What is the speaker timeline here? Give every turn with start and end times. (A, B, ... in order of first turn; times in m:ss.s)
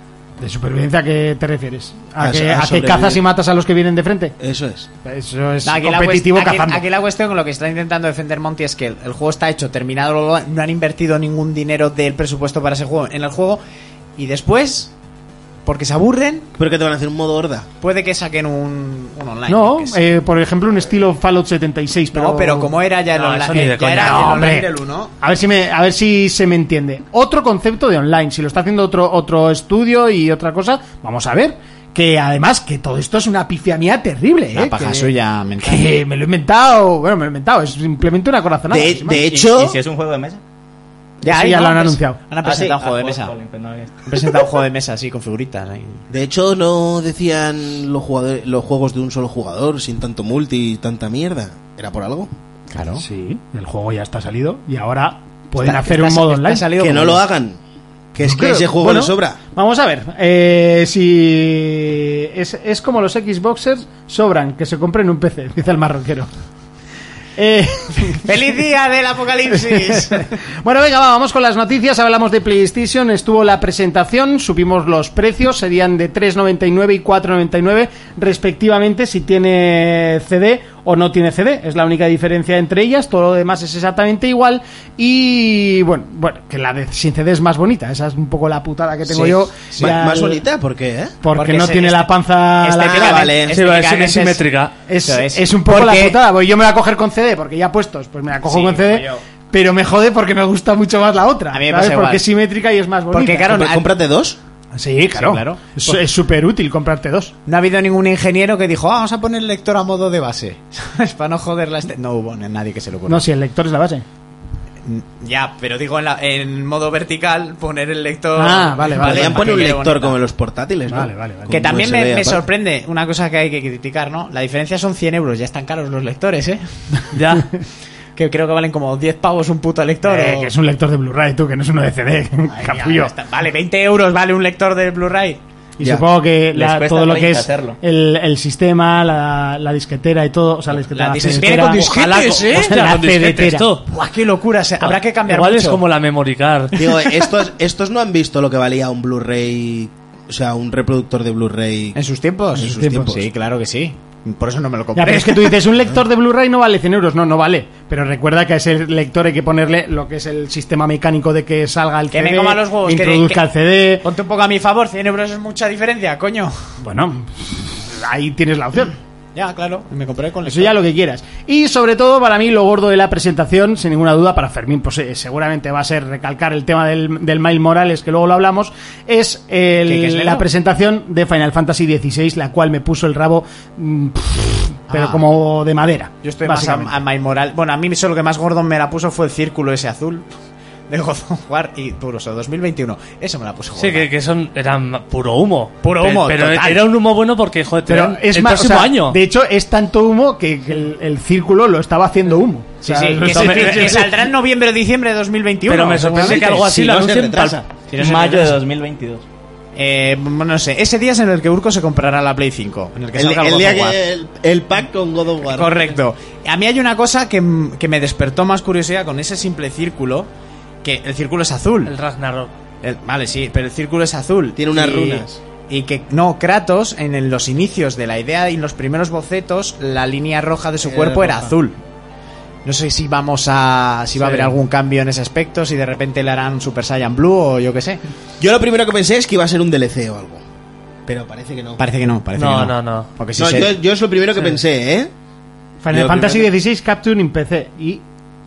0:00.4-0:04.4 A
0:02.2-0:03.2 B
0:04.4-0:04.9 B
0:05.0-0:06.8 A
0:05.6-0:13.6 C
0:14.2-0:14.9 C
0:15.7-0:16.5 C
0:16.6-0:17.7 B
0:17.8-0:20.0 C
0:19.5-0:22.8 A
0:22.1-0:25.1 C
0:23.5-0:24.4 D
0:23.5-0:39.2 A
0:34.5-0:35.9 C
0:38.7-0:39.8 B
0:39.1-0:40.4 E
0:41.2-0:43.3 C
0:41.2-0:42.2 A
0:42.4-0:44.2 E
0:44.0-0:46.0 C
0:46.1-0:52.3 B
0:52.7-0:53.0 C
0:53.0-0:56.7 A
0:55.6-0:57.2 C
0:56.8-0:57.6 B
0:58.1-0:59.4 B
0:58.2-1:06.3 A
1:07.4-1:08.5 A
1:08.2-1:10.4 C
1:09.5-1:30.4 A
1:29.1-1:29.9 C
1:29.8-1:31.2 B
1:31.2-1:33.5 A
1:31.3-1:34.4 C
1:32.8-1:33.6 B
1:33.5-1:34.7 D
1:34.9-1:43.6 A
1:35.0-1:36.2 C
1:38.5-1:39.2 C
1:41.5-1:42.2 C
1:43.1-1:43.9 C
1:43.5-1:44.4 B
1:44.7-1:47.3 A
1:45.1-1:46.0 C
1:47.5-1:53.2 C
1:53.1-1:54.0 A
1:54.8-2:00.2 C
1:58.4-1:59.6 A
1:59.0-2:02.4 B
2:00.9-2:01.8 A
2:01.5-2:07.0 C
2:07.1-2:07.5 D
2:08.2-2:10.5 C
2:10.0-2:13.1 A
2:12.5-2:15.4 C
2:15.8-2:23.7 A
2:16.5-2:17.8 E
2:20.9-2:22.8 C
2:21.5-2:23.8 D
2:23.9-2:25.8 C
2:24.8-2:26.8 D
2:26.7-2:32.0 B
2:31.9-2:35.6 C
2:32.5-2:33.3 B
2:32.6-2:33.1 A
2:35.0-2:44.0 A
2:42.1-2:43.4 C
2:44.0-2:46.6 C
2:46.8-2:49.0 A
2:49.4-2:50.7 C
2:50.5-3:07.0 A
2:59.9-3:00.5 C
3:04.9-3:05.2 C
3:06.2-3:10.3 C
3:10.9-3:14.1 C
3:13.8-3:19.2 D
3:15.8-3:16.9 C
3:17.9-3:24.1 A
3:22.8-3:26.5 C
3:23.2-3:24.2 D
3:25.7-3:27.6 D
3:26.1-3:27.7 B
3:27.9-3:28.6 C
3:28.0-3:29.2 E
3:29.8-3:34.0 C
3:33.2-3:35.9 B
3:35.5-3:40.3 C
3:40.8-3:42.0 C
3:41.8-3:42.5 D
3:42.8-3:51.8 C
3:44.6-3:45.4 B
3:50.8-3:51.5 B
3:52.6-3:58.0 C
3:54.2-3:54.5 B
3:58.4-4:00.4 B
4:01.1-4:01.8 B
4:01.8-4:03.8 C
4:02.4-4:03.1 D
4:03.4-4:05.1 B
4:05.8-4:08.0 A
4:05.9-4:06.5 B